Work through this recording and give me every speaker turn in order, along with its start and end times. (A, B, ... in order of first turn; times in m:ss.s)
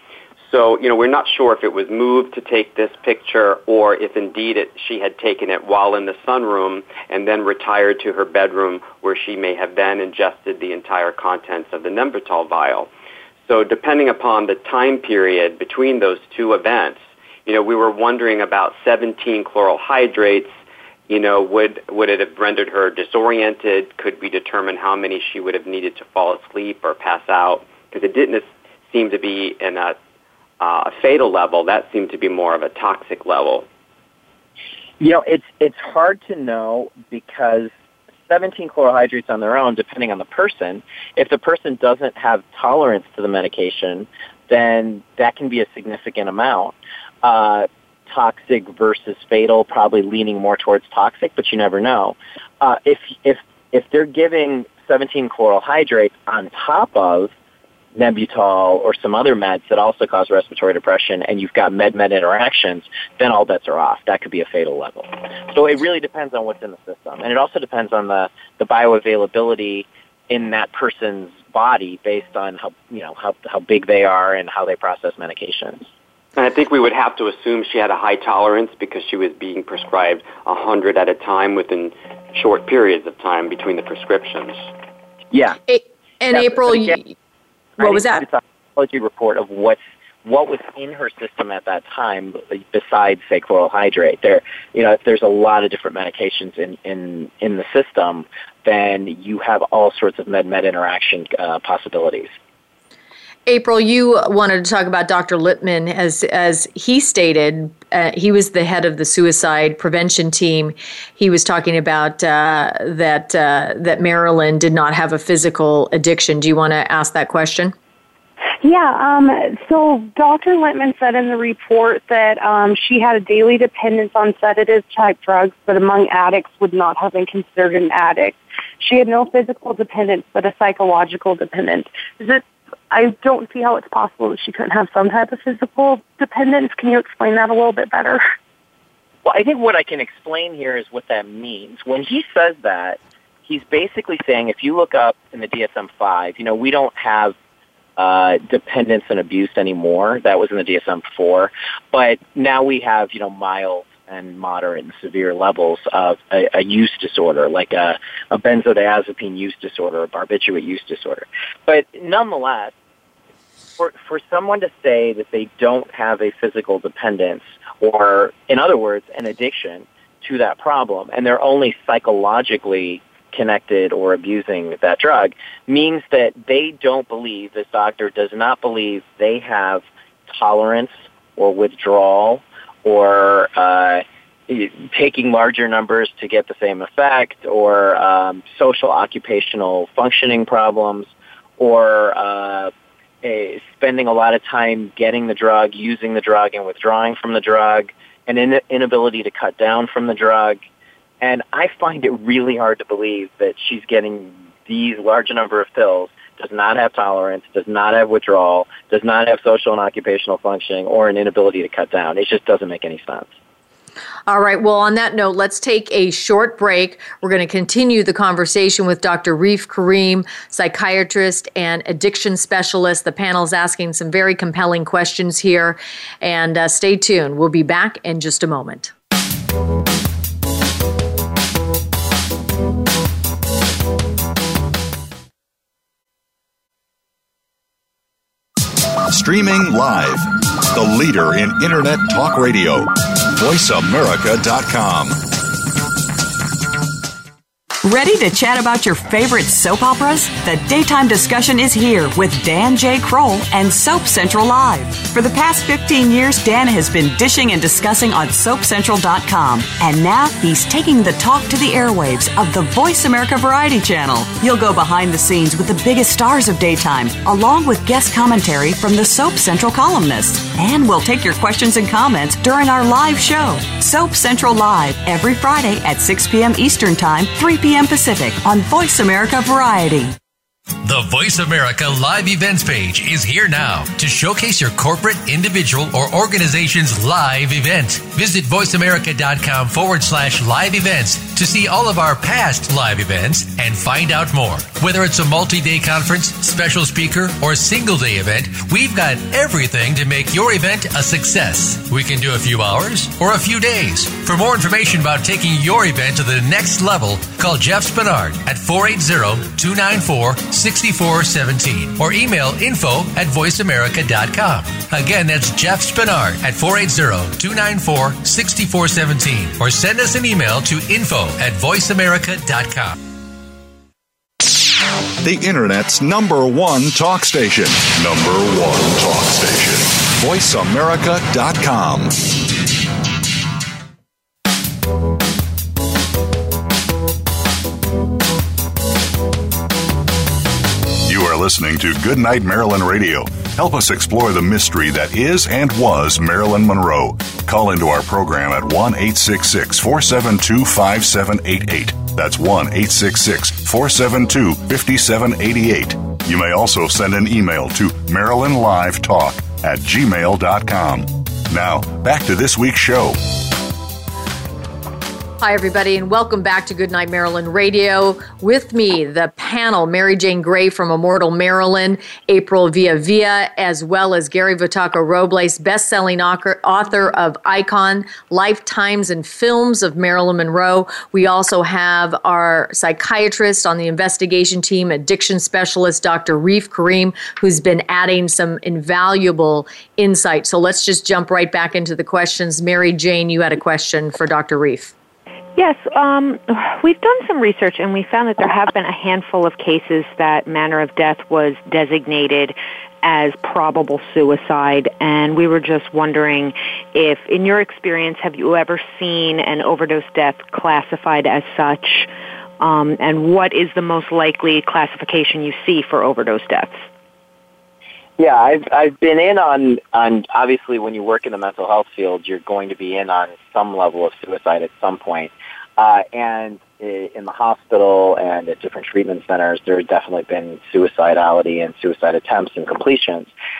0:00.4-0:12.9 A
0:13.5-0:20.5 A
0:21.1-0:30.0 A
0:30.6-0:33.7 A
0:35.0-0:37.7 B
0:38.3-0:57.3 B
0:58.0-1:15.8 B
1:16.4-1:24.7 A
1:25.3-1:25.6 B
1:25.7-1:27.1 C
1:26.3-1:27.0 B
1:27.8-1:42.3 B
1:27.8-1:28.2 C
1:43.5-1:57.7 C
1:58.6-2:18.2 D
2:19.2-2:27.4 B
2:28.0-2:42.7 B
2:43.8-3:12.7 B
3:13.2-3:20.6 B
3:21.2-3:33.3 B
3:34.3-3:48.9 C
3:59.1-4:05.2 E
4:07.8-4:40.2 F
4:40.8-5:23.0 G
5:25.2-5:32.3 E
5:41.0-6:03.3 E
6:05.4-6:34.9 C
6:35.6-6:56.8 H
6:58.2-7:13.3 B